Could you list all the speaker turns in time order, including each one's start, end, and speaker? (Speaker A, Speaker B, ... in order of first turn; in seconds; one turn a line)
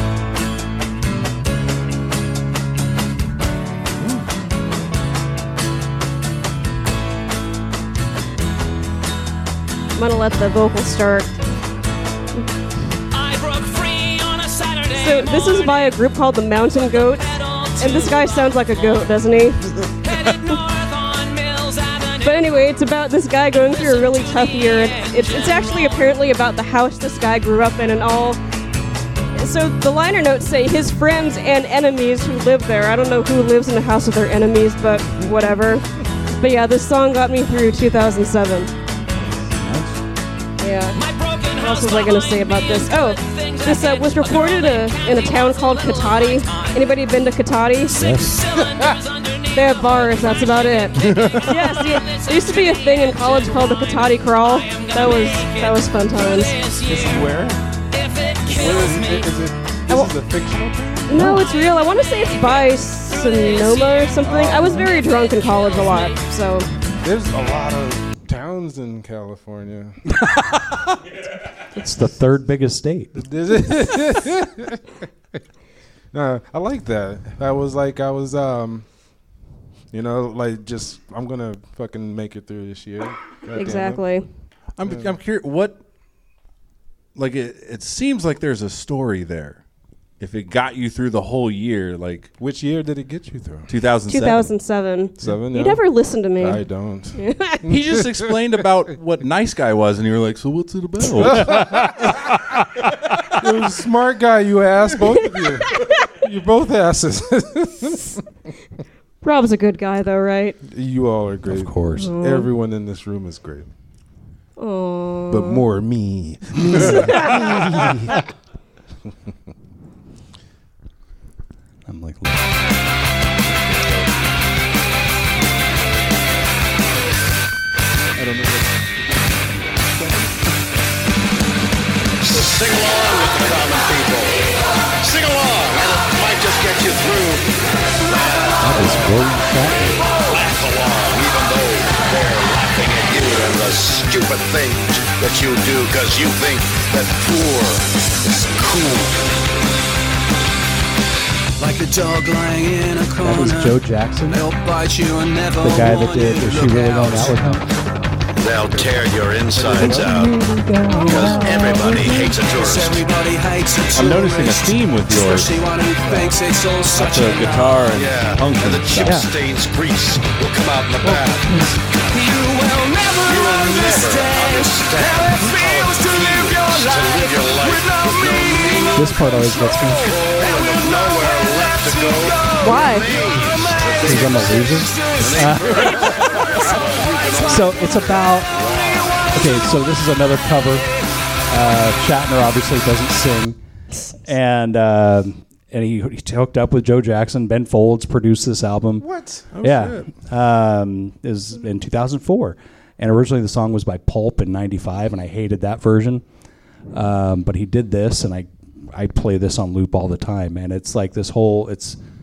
Speaker A: 9.9-11.3
Speaker B: 13.1-14.9
Speaker A: 14.9-19.9
Speaker B: 20.8-21.2
Speaker A: 22.2-28.4
Speaker A: 29.4-35.9
Speaker A: 36.4-38.7
Speaker C: 39.6-39.9
Speaker A: 40.6-41.0
Speaker B: 41.0-42.6
Speaker A: 41.5-48.0
Speaker B: 43.2-44.0
Speaker C: 47.9-48.4
Speaker B: 48.2-49.5
Speaker A: 49.5-56.6
Speaker D: 51.0-51.6
Speaker E: 56.9-57.6
Speaker B: 58.0-58.5
Speaker E: 58.4-61.4
Speaker A: 61.1-66.7
Speaker C: 61.1-61.5
Speaker E: 64.2-64.9
Speaker E: 67.0-70.0
Speaker C: 70.2-70.9
Speaker C: 71.7-73.2
Speaker E: 73.2-74.9
Speaker E: 76.1-78.9
Speaker E: 79.9-84.0
Speaker A: 83.5-84.2
Speaker D: 84.8-85.8
Speaker E: 84.9-85.1
Speaker D: 87.1-89.6
Speaker D: 90.2-92.3
Speaker E: 92.4-93.7
Speaker D: 93.7-94.5
Speaker A: 94.1-96.6
Speaker E: 95.2-95.8
Speaker E: 96.4-98.0
Speaker A: 97.1-97.6
Speaker D: 97.7-102.3
Speaker E: 101.2-102.2
Speaker E: 103.3-108.2
Speaker A: 109.2-110.6
Speaker E: 110.7-113.7
Speaker C: 111.5-112.1
Speaker A: 112.0-112.5
Speaker A: 114.6-115.6
Speaker E: 115.3-118.2
Speaker C: 121.9-122.5
Speaker D: 123.6-124.1
Speaker D: 128.2-128.7
Speaker F: 132.2-139.2
Speaker C: 138.6-140.1
Speaker F: 140.0-149.3
Speaker B: 151.6-157.6
Speaker C: 153.2-154.4
Speaker C: 155.6-157.7
Speaker F: 158.4-160.4
Speaker B: 159.7-160.1
Speaker C: 159.7-162.4
Speaker F: 160.9-163.1
Speaker B: 161.2-167.9
Speaker D: 163.9-165.6
Speaker D: 166.9-169.2
Speaker F: 167.9-171.5
Speaker C: 169.0-169.3
Speaker C: 171.0-171.8
Speaker B: 172.0-187.5
Speaker F: 173.2-179.2
Speaker C: 178.9-180.1
Speaker F: 179.9-189.3
Speaker A: 182.6-183.1
Speaker C: 184.0-186.1
Speaker C: 187.4-188.6
Speaker C: 189.3-190.9
Speaker C: 191.5-193.6
Speaker C: 194.2-199.1
Speaker E: 199.0-199.5
Speaker D: 199.5-200.1
Speaker C: 199.6-206.2
Speaker C: 206.9-212.0